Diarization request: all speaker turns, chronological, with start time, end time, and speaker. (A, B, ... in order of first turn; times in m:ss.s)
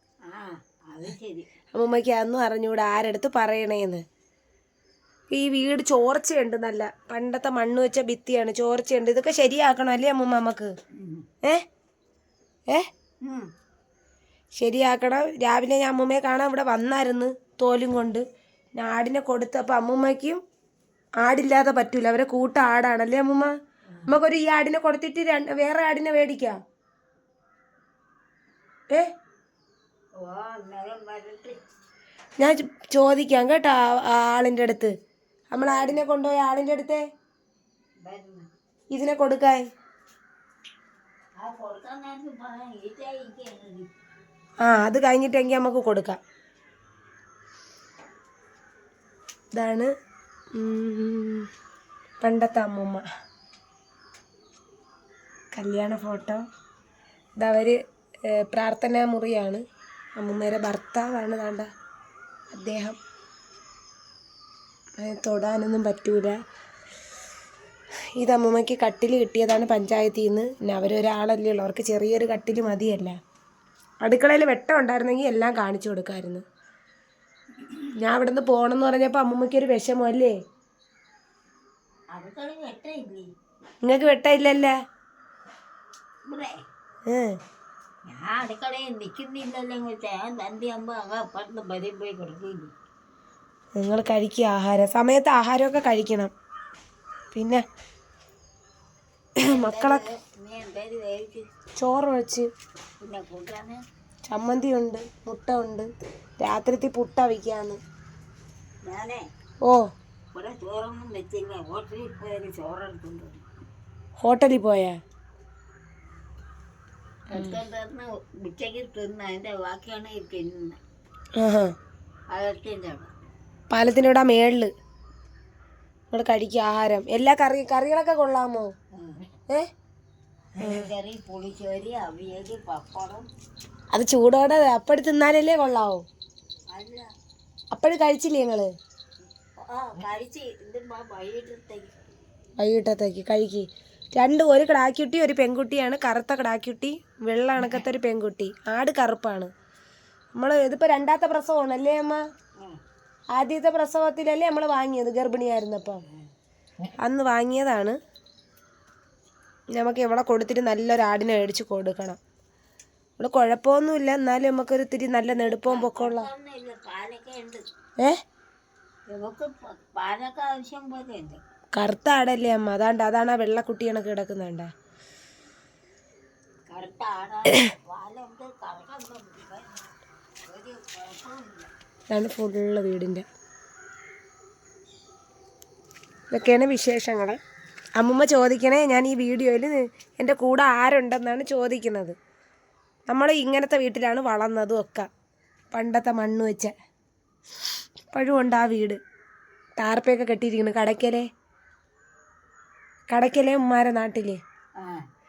0:00.3-0:01.5 A
0:01.7-0:04.0 B
0:05.3-0:10.7 B
0:10.9-0:11.3 A
0:13.2-0:13.5 A
0:14.6-0:18.2 B
0:18.8-0:20.4 B
0:21.2-0:23.5 B
0:24.1-0:26.6 B
0:30.2-0:31.6 A
0:32.4-0:34.9 B
0:35.5-0:37.0 B
0:35.6-0:36.0 A
0:38.0-0:38.5 A
0:38.9-0:39.7 B
0:41.4-0:43.9 A
0:44.6-0:46.2 B
0:49.5-0:49.9 B
0:50.6-0:51.5 B
0:52.2-0:53.0 B
0:55.5-0:56.4 B
0:57.4-0:57.8 B
0:58.3-0:59.6 B
1:00.2-1:01.7 B
1:02.5-1:03.0 B
1:05.0-1:06.4 B
1:08.2-1:13.2 B
1:14.0-1:16.4 B
1:18.0-1:20.4 B
1:22.1-1:23.3 A
1:23.8-1:24.8 B
1:26.2-1:26.6 A
1:27.1-1:27.4 B
1:28.1-1:32.7 A
1:33.8-1:36.3 B
1:37.3-1:37.6 B
1:39.4-1:40.0 B
1:39.4-1:41.5 A
1:41.8-1:42.5 B
1:43.0-1:43.8 A
1:44.3-1:45.9 B
1:46.4-1:47.8 B
1:48.8-1:49.2 A
1:50.3-1:53.4 A
1:54.2-1:55.0 B
1:57.3-2:00.8 A
2:01.4-2:01.7 B
2:02.3-2:03.1 A
2:03.7-2:04.7 B
2:06.1-2:08.7 B
2:09.0-2:09.3 A
2:10.6-2:13.3 A
2:13.9-2:16.0 B
2:16.7-2:17.1 A
2:17.7-2:18.7 B
2:19.5-2:21.9 A
2:22.6-2:29.5 B
2:30.3-2:32.2 B
2:33.4-2:36.0 B
2:37.0-2:38.0 B
2:39.8-2:42.2 B
2:43.2-2:46.3 B
2:45.3-2:47.6 A
2:49.1-2:51.4 A
2:51.8-2:54.7 B
2:56.7-2:59.9 A
3:00.5-3:01.7 A
3:02.1-3:03.2 B
3:06.3-3:07.4 B
3:08.0-3:12.2 B
3:13.1-3:15.1 B
3:15.7-3:16.7 B
3:18.1-3:19.0 B
3:19.8-3:21.3 B
3:23.1-3:24.4 B